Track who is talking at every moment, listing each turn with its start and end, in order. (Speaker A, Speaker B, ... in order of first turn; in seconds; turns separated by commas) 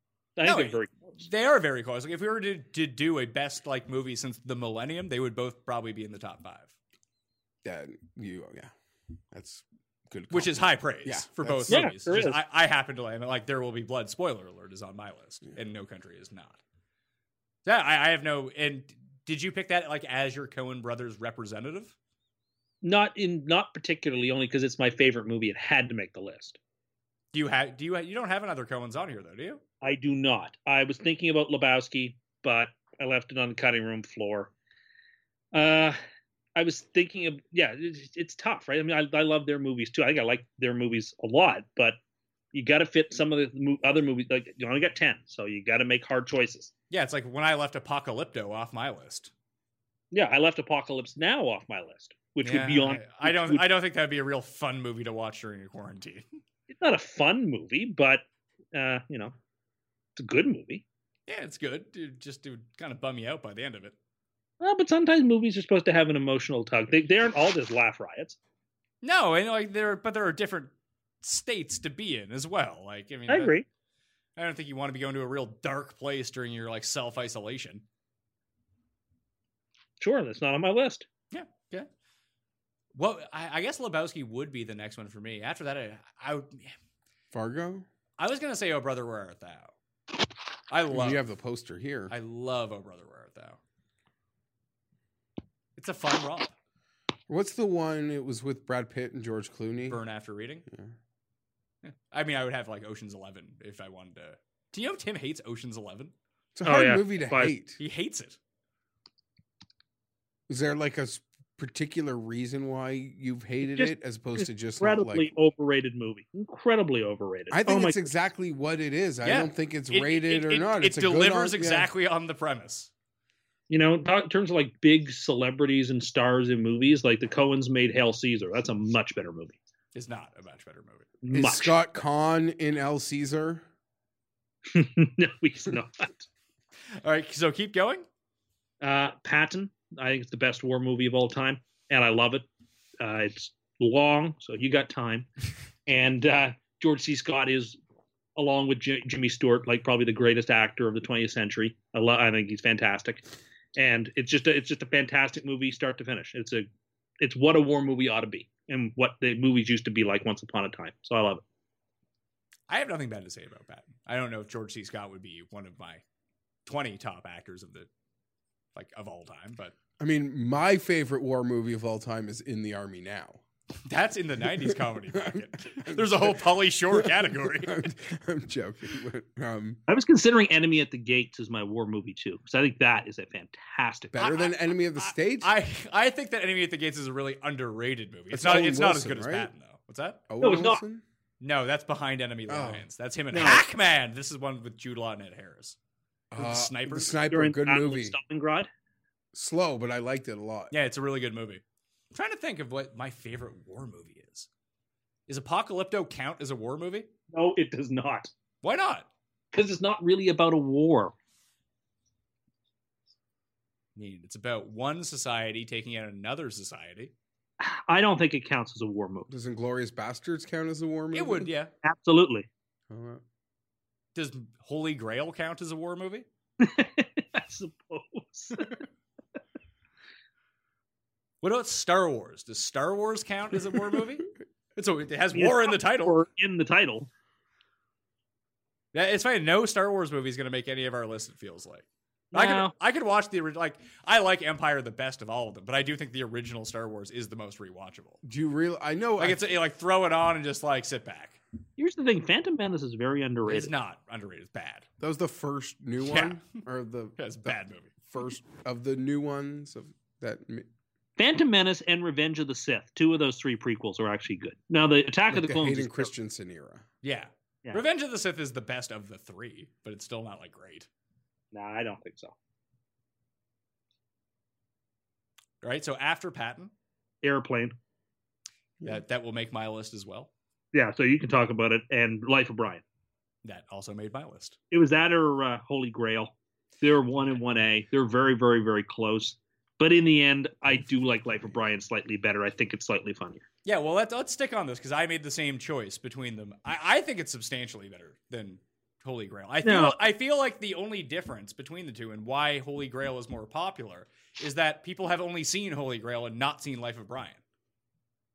Speaker A: 0.3-1.1, Speaker B: 0.4-6.7, Speaker C: 7.6-8.7, Speaker C: 9.3-11.9, Speaker B: 10.3-16.6, Speaker A: 11.7-12.4, Speaker B: 17.6-21.9, Speaker A: 22.8-26.6, Speaker B: 27.3-29.6, Speaker A: 29.8-34.5, Speaker A: 35.5-36.0, Speaker A: 36.5-42.0, Speaker A: 42.5-46.7, Speaker B: 46.9-49.3, Speaker A: 50.1-53.6, Speaker B: 52.4-56.2, Speaker A: 56.7-59.3, Speaker A: 60.1-60.8, Speaker B: 61.3-63.9, Speaker A: 64.6-68.4, Speaker B: 69.0-70.7, Speaker B: 71.2-73.5, Speaker A: 73.3-73.7, Speaker B: 74.3-77.8, Speaker A: 80.0-81.1, Speaker B: 81.3-81.9, Speaker B: 82.9-86.7, Speaker C: 87.3-87.8, Speaker B: 88.2-89.7, Speaker B: 90.7-91.2, Speaker C: 90.9-92.1, Speaker B: 92.1-93.6, Speaker B: 95.8-96.5, Speaker C: 97.3-100.0, Speaker B: 99.9-100.7, Speaker B: 101.8-106.1, Speaker C: 106.5-107.8, Speaker A: 106.6-107.5, Speaker B: 107.8-108.4, Speaker C: 110.5-115.3, Speaker A: 113.7-118.0, Speaker C: 117.5-121.9, Speaker B: 119.2-122.9, Speaker A: 123.7-129.6, Speaker B: 129.9-131.2, Speaker A: 131.2-131.7, Speaker C: 131.3-133.6, Speaker A: 134.7-136.3, Speaker B: 137.0-138.1, Speaker A: 138.8-142.4, Speaker A: 143.0-145.3, Speaker A: 145.9-147.8, Speaker A: 148.3-153.2, Speaker A: 153.8-156.7, Speaker A: 157.2-161.4, Speaker B: 162.7-166.0, Speaker B: 166.7-167.9, Speaker B: 168.7-169.7, Speaker C: 170.0-173.4, Speaker B: 173.9-177.9, Speaker C: 175.1-179.8, Speaker A: 179.9-184.1, Speaker C: 184.1-185.5, Speaker B: 184.2-190.3, Speaker C: 188.3-189.5, Speaker C: 190.3-191.0, Speaker A: 190.4-190.8, Speaker B: 191.4-195.8, Speaker C: 192.5-192.8, Speaker A: 193.3-193.6, Speaker C: 196.3-198.2, Speaker B: 196.3-197.2, Speaker A: 197.3-198.7, Speaker C: 199.3-200.7, Speaker B: 200.7-201.6, Speaker B: 202.1-204.5, Speaker B: 205.3-207.1, Speaker A: 207.3-208.3, Speaker B: 208.6-209.1, Speaker A: 209.5-211.1, Speaker B: 213.9-217.1, Speaker A: 217.6-219.3, Speaker C: 219.3-221.5, Speaker B: 221.1-221.7, Speaker A: 221.8-222.5, Speaker C: 222.9-223.2, Speaker B: 224.1-226.2, Speaker A: 226.6-228.7, Speaker B: 231.4-236.2, Speaker A: 235.3-237.1, Speaker B: 238.9-248.2, Speaker A: 242.3-242.7, Speaker C: 248.2-249.4, Speaker B: 249.2-251.4, Speaker A: 251.8-253.7, Speaker B: 253.4-254.8, Speaker C: 255.0-257.6, Speaker B: 256.0-256.4, Speaker B: 257.2-257.9, Speaker C: 258.1-260.7, Speaker A: 261.2-266.1, Speaker C: 265.3-266.8, Speaker B: 267.0-270.9, Speaker A: 271.5-272.3, Speaker B: 275.6-276.7, Speaker A: 277.2-277.7, Speaker B: 278.8-280.3, Speaker A: 280.7-282.8, Speaker B: 283.4-284.6, Speaker A: 284.7-293.4, Speaker B: 293.6-307.4, Speaker A: 299.6-300.0